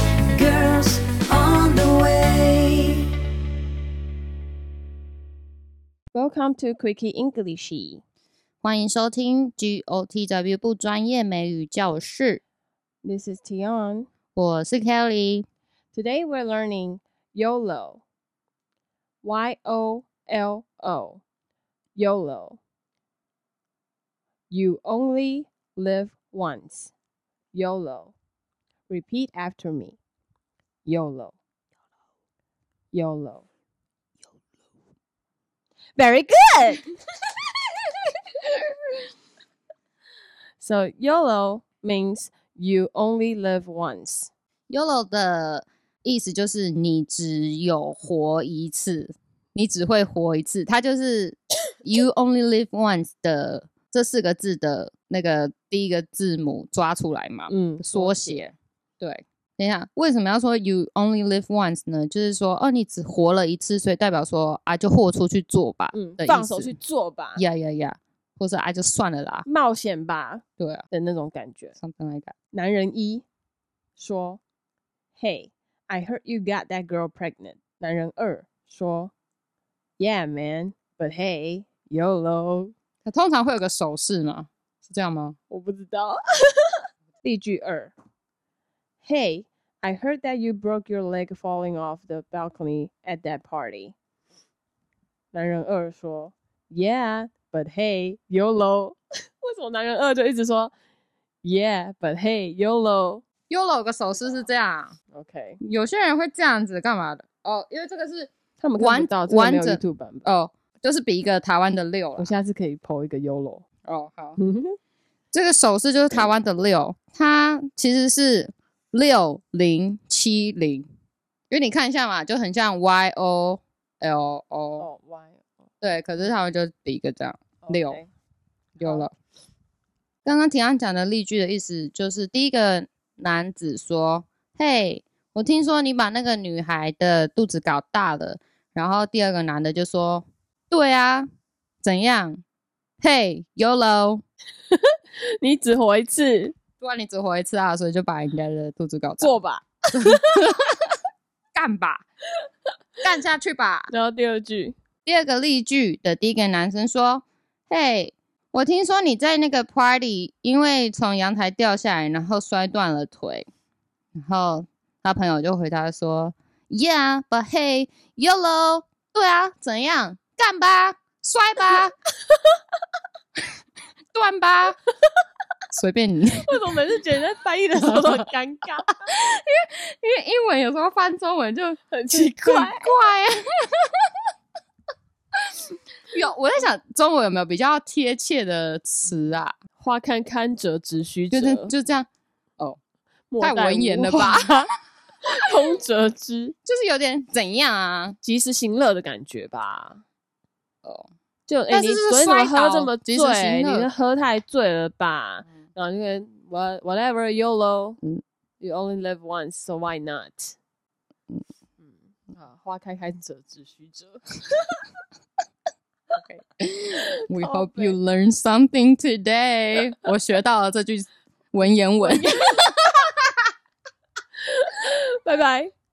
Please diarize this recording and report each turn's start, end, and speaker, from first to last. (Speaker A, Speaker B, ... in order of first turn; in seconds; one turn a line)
Speaker A: 0.3-3.1
Speaker B: 6.1-8.0
Speaker C: 8.6-12.4
Speaker B: 13.0-14.1
Speaker C: 14.3-15.4
Speaker B: 15.9-18.0
Speaker B: 19.2-21.2
Speaker B: 22.0-22.6
Speaker B: 24.5-26.9
Speaker B: 27.5-28.1
Speaker B: 28.9-30.0
Speaker B: 30.9-31.4
Speaker B: 32.9-33.5
Speaker B: 36.0-36.9
Speaker B: 40.6-44.3
Speaker C: 44.7-66.8
Speaker B: 57.5-58.5
Speaker B: 65.9-67.4
Speaker C: 67.4-69.5
Speaker B: 69.5-71.8
Speaker C: 70.6-70.8
Speaker C: 71.8-72.3
Speaker B: 72.5-73.2
Speaker B: 74.0-74.4
Speaker B: 75.2-79.1
Speaker B: 80.0-82.7
Speaker C: 83.0-85.4
Speaker B: 85.5-87.9
Speaker B: 89.0-94.0
Speaker B: 95.3-100.7
Speaker B: 101.4-103.2
Speaker C: 103.5-105.0
Speaker B: 105.1-105.6
Speaker C: 105.6-112.3
Speaker B: 108.6-110.3
Speaker B: 112.2-113.6
Speaker C: 113.9-114.4
Speaker B: 114.4-114.8
Speaker C: 115.3-120.9
Speaker C: 121.5-124.9
Speaker B: 124.8-125.5
Speaker C: 125.8-128.0
Speaker B: 127.6-128.1
Speaker C: 128.8-129.1
Speaker B: 128.8-129.1
Speaker C: 130.2-141.3
Speaker C: 141.8-142.4
Speaker C: 143.0-144.2
Speaker B: 144.7-146.6
Speaker C: 146.8-149.4
Speaker B: 149.2-150.5
Speaker C: 149.9-150.8
Speaker C: 151.6-152.0
Speaker C: 153.0-153.9
Speaker B: 153.9-154.8
Speaker C: 155.1-163.5
Speaker C: 164.2-171.9
Speaker C: 174.1-174.8
Speaker C: 175.7-176.7
Speaker B: 176.4-179.0
Speaker C: 179.1-184.0
Speaker B: 181.9-182.9
Speaker C: 186.1-189.6
Speaker B: 189.8-191.7
Speaker C: 191.3-192.1
Speaker B: 193.3-194.7
Speaker C: 193.4-194.7
Speaker B: 195.2-196.5
Speaker C: 196.7-198.2
Speaker B: 198.2-200.0
Speaker B: 201.5-208.0
Speaker C: 201.7-203.9
Speaker B: 208.6-210.6
Speaker B: 211.8-214.8
Speaker C: 216.1-222.6
Speaker B: 217.3-218.0
Speaker B: 222.1-223.1
Speaker B: 224.4-225.7